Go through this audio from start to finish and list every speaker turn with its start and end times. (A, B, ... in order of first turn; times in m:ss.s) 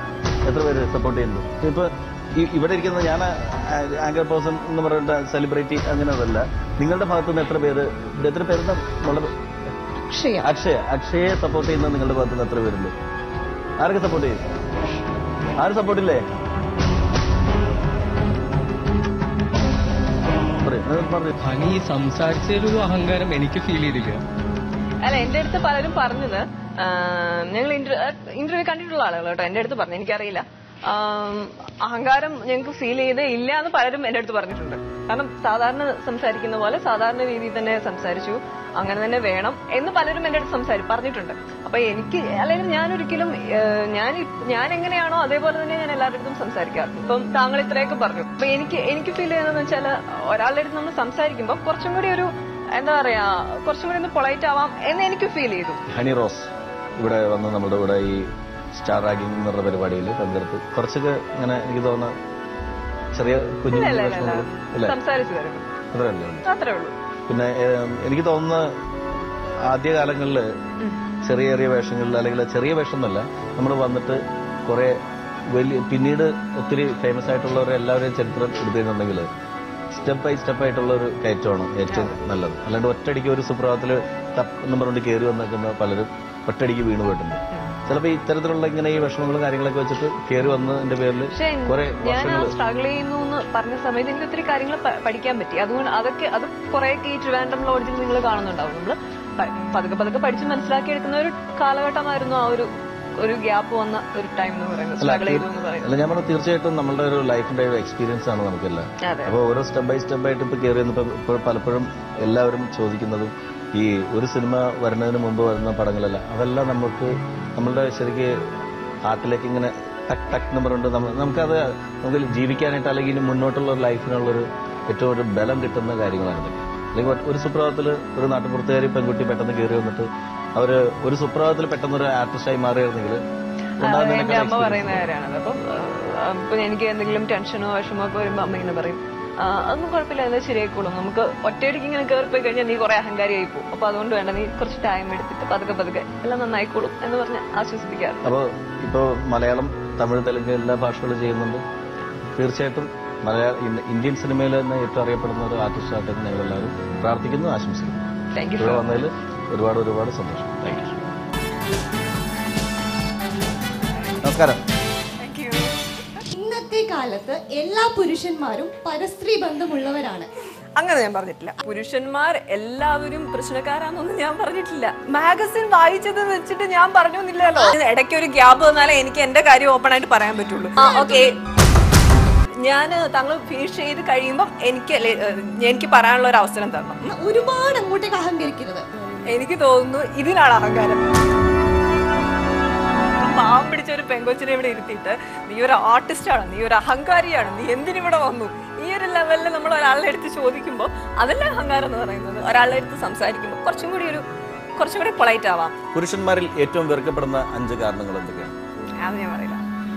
0:00.4-0:09.3 A
0:10.1-0:10.4 B
0:10.4-0:12.9 A
0:13.8-0:14.4 A
0:15.6-0:16.2 A
0:20.6-0:21.3 A
0:21.4-0:24.2 C
0:25.0-0:55.8 D
0:55.9-1:02.1 A
1:03.1-1:05.0 A
1:03.7-1:05.7 D
1:05.9-1:06.4 A
1:06.4-1:06.9 D
1:07.3-1:08.7 A
1:09.7-1:10.5 A
1:11.2-1:15.0 A
1:15.5-1:19.3 A
1:19.9-1:32.5 A
1:21.9-1:22.2 D
1:31.3-1:46.0 D
1:45.0-1:58.3 A
1:49.0-1:49.3 D
1:59.0-2:13.2 A
2:13.8-2:15.1 A
2:13.8-2:28.3 D
2:28.2-2:31.6 A
2:32.4-2:41.0 A
2:38.3-2:39.1 D
2:44.2-2:44.6 A
2:45.2-2:46.2 D
2:46.3-2:50.3 B
2:50.8-3:01.4 D
3:00.8-3:01.3 B
3:02.6-3:07.1 D
3:07.0-3:09.2 B
3:09.3-3:11.1 D
3:13.1-3:24.2 D
3:24.8-3:25.7 D
3:25.9-3:28.6 A
3:29.0-3:29.6 D